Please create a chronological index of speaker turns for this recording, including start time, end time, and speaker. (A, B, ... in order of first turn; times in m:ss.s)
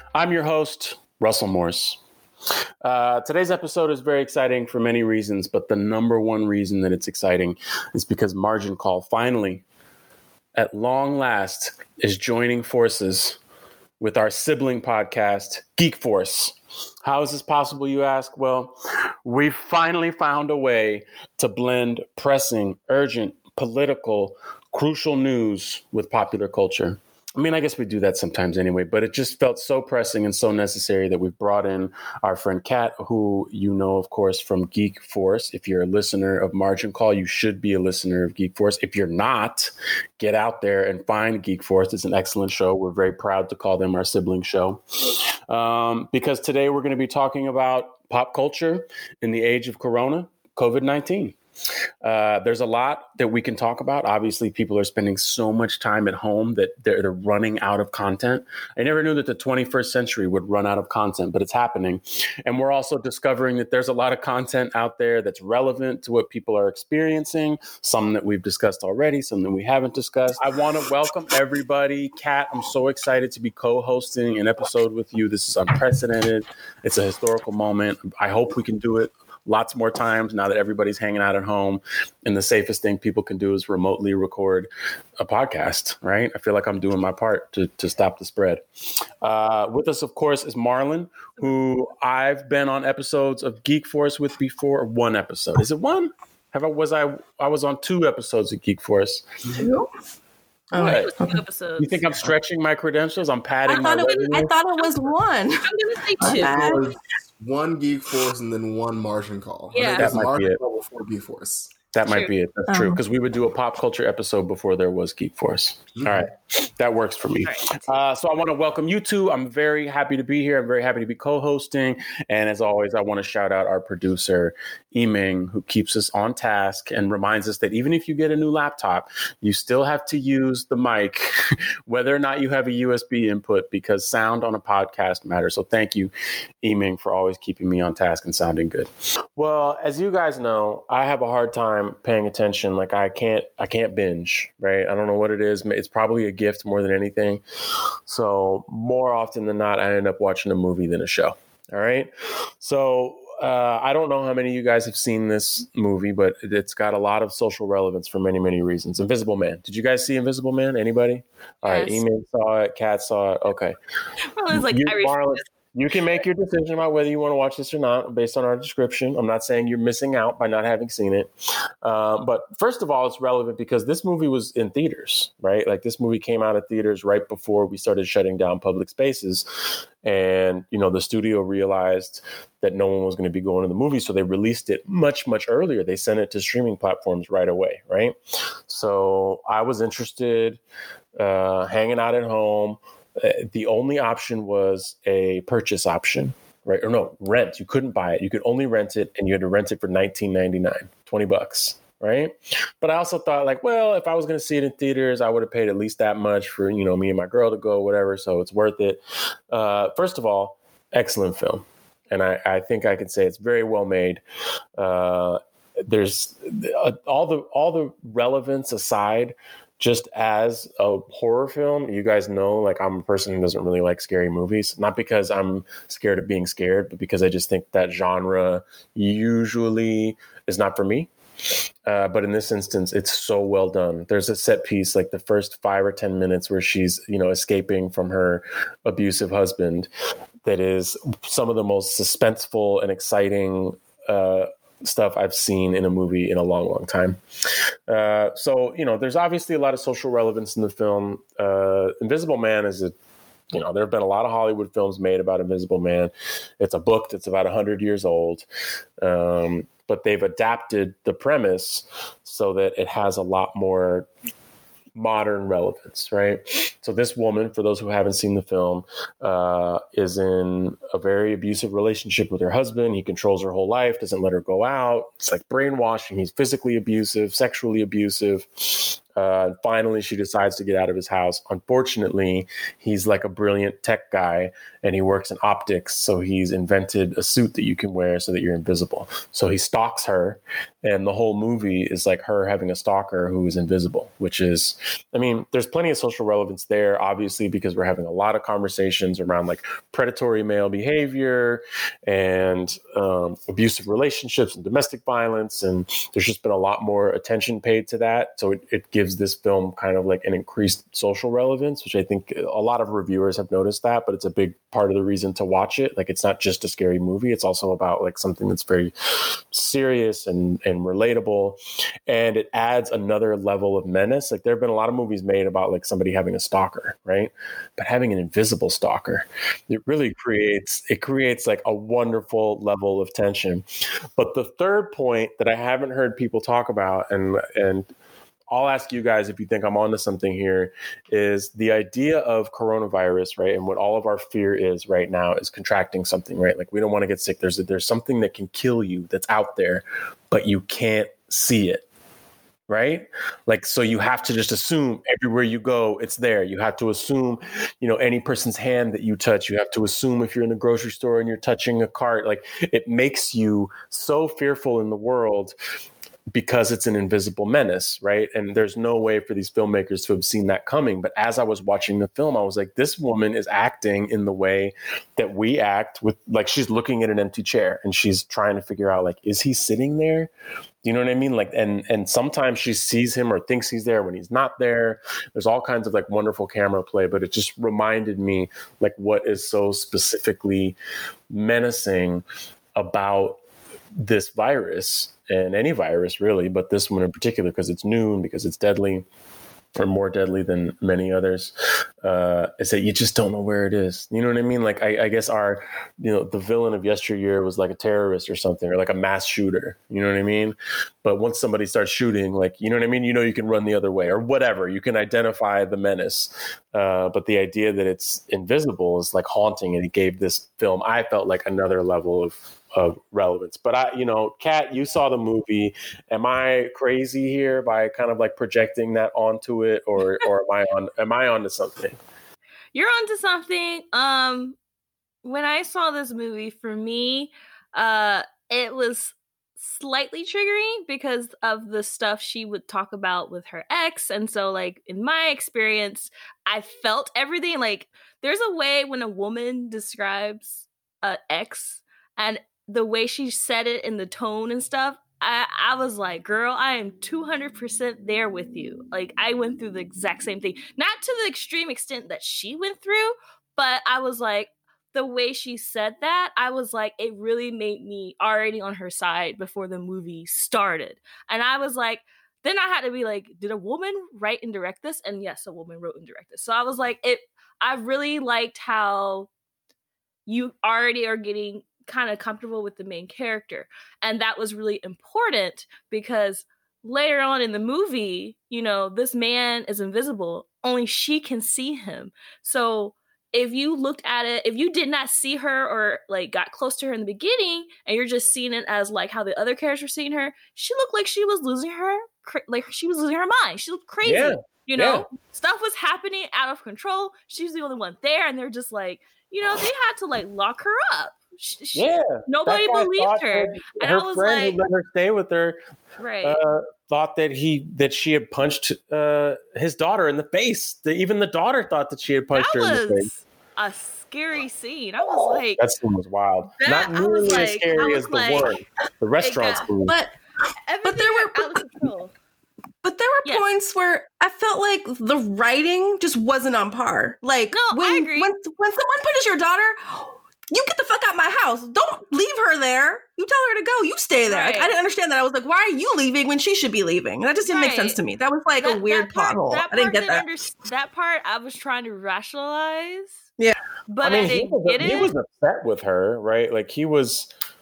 0:00.1-0:02.0 A
0:02.8-0:09.6 A
0:10.6-0:13.4 A
0:14.0-0:44.8 A
0:45.5-0:51.4 A
0:52.0-1:28.6 A
1:29.2-1:39.2 A
1:39.6-1:39.9 B
1:40.7-1:41.4 B
1:40.7-1:42.0 C
1:40.7-1:41.1 A
1:41.8-1:44.5 A
1:43.6-1:45.6 B
1:45.6-1:46.5 C
1:46.2-1:46.8 B
1:46.2-1:51.8 D
1:49.7-1:50.2 C
1:49.8-1:50.6 A
1:51.9-2:11.3 A
1:52.1-1:52.3 C
1:52.7-1:53.0 B
2:11.9-2:16.1 A
2:16.6-2:27.4 A
2:28.1-2:43.8 A
2:41.6-2:42.0 C
2:44.4-2:45.5 C
2:44.5-3:10.6 A
3:11.2-3:29.0 A
3:29.5-3:34.2 A
3:34.8-3:51.1 A
3:51.8-3:59.9 A
4:00.4-4:07.2 A
4:07.9-4:12.9 A
4:13.5-4:18.4 A
4:19.0-4:24.1 A
4:24.9-5:33.6 A
5:34.2-5:37.9 A
5:38.5-5:51.8 A
5:52.7-6:05.5 A
6:06.3-6:20.3 A
6:20.8-6:30.8 A
6:31.3-6:32.2 A
6:32.7-6:33.4 A
6:34.0-6:39.0 A
6:39.7-7:12.0 A
7:12.7-7:14.6 C
7:15.2-7:59.3 C
8:00.2-8:34.6 C
8:24.0-8:25.1 A
8:31.7-8:35.6 A
8:36.0-8:36.4 C
8:36.2-8:43.1 A
8:42.3-8:45.6 C
8:45.6-8:49.9 A
8:46.6-8:48.5 C
8:49.2-8:49.7 C
8:49.8-8:50.1 B
8:50.7-8:52.1 C
8:50.8-8:51.6 B
8:52.8-9:10.3 B
8:57.5-8:58.3 C
9:04.2-9:04.7 C
9:07.5-9:08.0 C
9:08.6-9:13.2 C
9:13.9-9:15.1 C
9:14.0-9:17.3 A